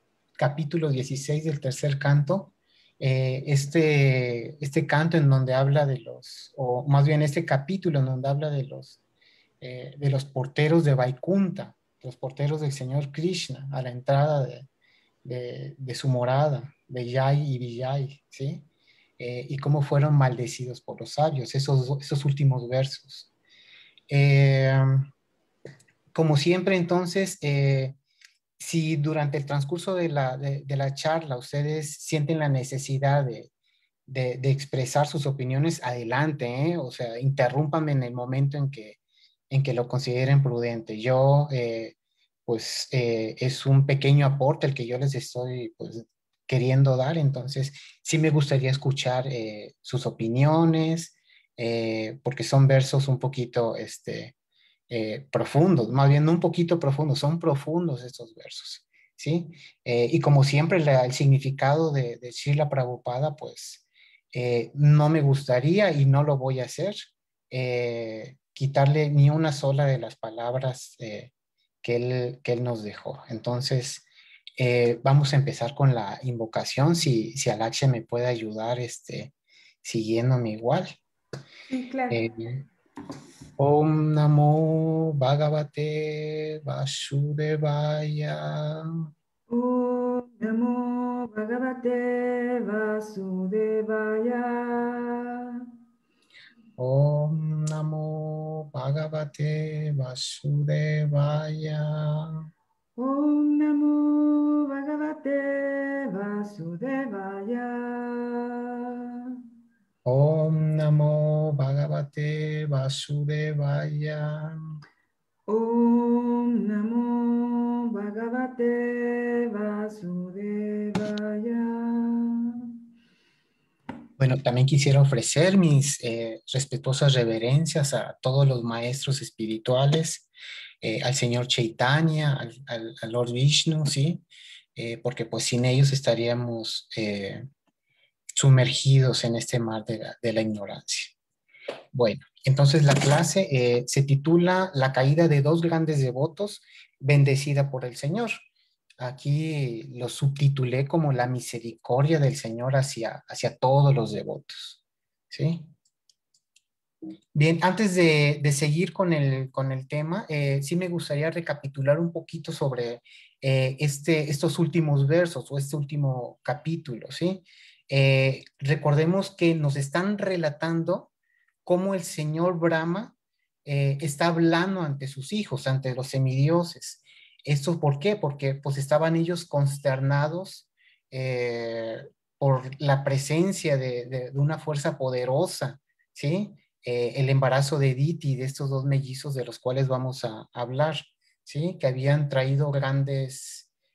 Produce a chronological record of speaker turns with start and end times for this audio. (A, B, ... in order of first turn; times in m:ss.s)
0:00.4-0:09.0 A
0:09.6-0:14.7 A
0:15.2-0:18.6 A
0:19.2-0:23.3 A
0:24.1-0:25.0 A
0:26.1-0:28.0 A
0:28.6-0:33.5 A
0:34.1-0:39.0 A
0:39.5-0:41.9 A
0:42.4-0:54.3 A
0:54.9-1:11.3 A
1:11.8-1:14.0 A
1:14.6-1:19.3 A
1:19.8-1:21.0 A
1:21.7-1:22.2 B
1:22.1-1:22.6 A
1:23.6-1:29.1 A
1:29.5-1:35.6 B
1:36.8-1:42.5 A
1:43.0-1:48.7 B
1:50.0-1:54.6 A
1:55.5-2:02.7 B
2:04.2-2:10.3 A
2:10.8-2:14.2 A
2:14.8-2:17.4 A
2:18.4-2:21.1 A
2:21.9-2:28.4 A
2:29.0-2:34.8 A
2:35.3-2:35.7 A
2:37.3-2:51.1 A
2:51.6-2:53.1 A
2:53.6-3:13.7 A